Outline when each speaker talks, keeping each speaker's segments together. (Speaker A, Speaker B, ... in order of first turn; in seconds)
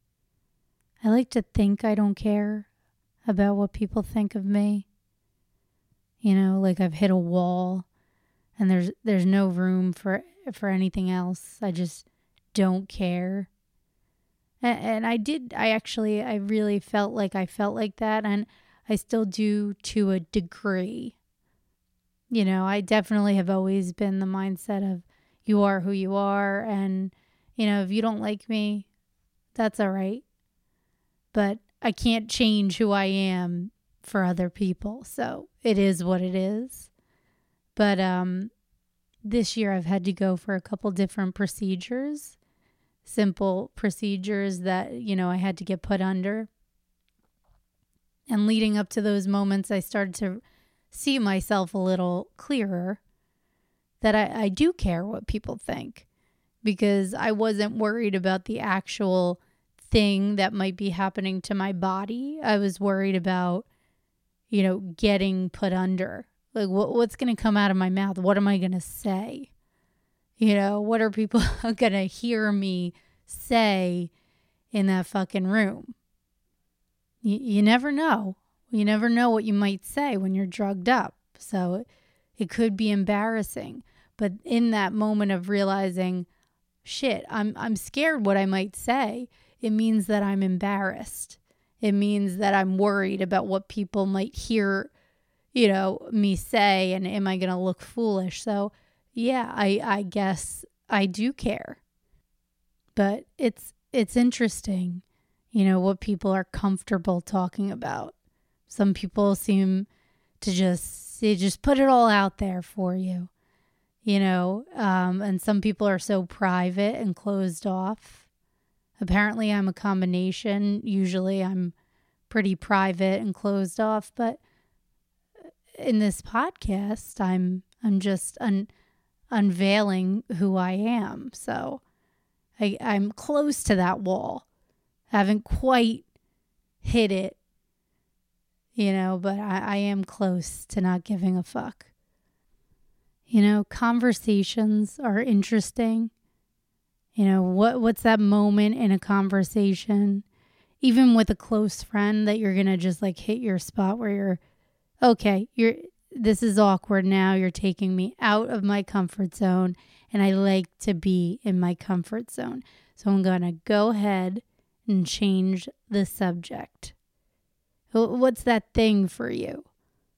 Speaker A: 1.0-2.7, 3.3-4.8, 6.2-7.8, 8.6-13.5, 14.6-21.1, 22.3-28.9, 29.6-30.2, 31.3-36.9, 37.8-38.5, 39.2-42.4, 43.0-46.5, 48.3-53.0, 54.0-56.0, 56.6-63.6, 64.5-69.5, 70.4-74.1, 74.7-75.9, 77.2-81.8, 82.4-86.3, 86.8-94.9, 95.5-101.8, 103.0-108.1, 108.7-109.9, 110.4-113.3, 114.0-118.2, 119.0-121.7, 122.3-124.4, 125.8-128.7, 129.3-131.8, 132.6-134.4, 135.1-136.0, 136.8-137.4, 138.8-141.8, 143.3-146.1, 147.2-150.2, 150.8-154.4, 155.0-166.9, 167.9-169.7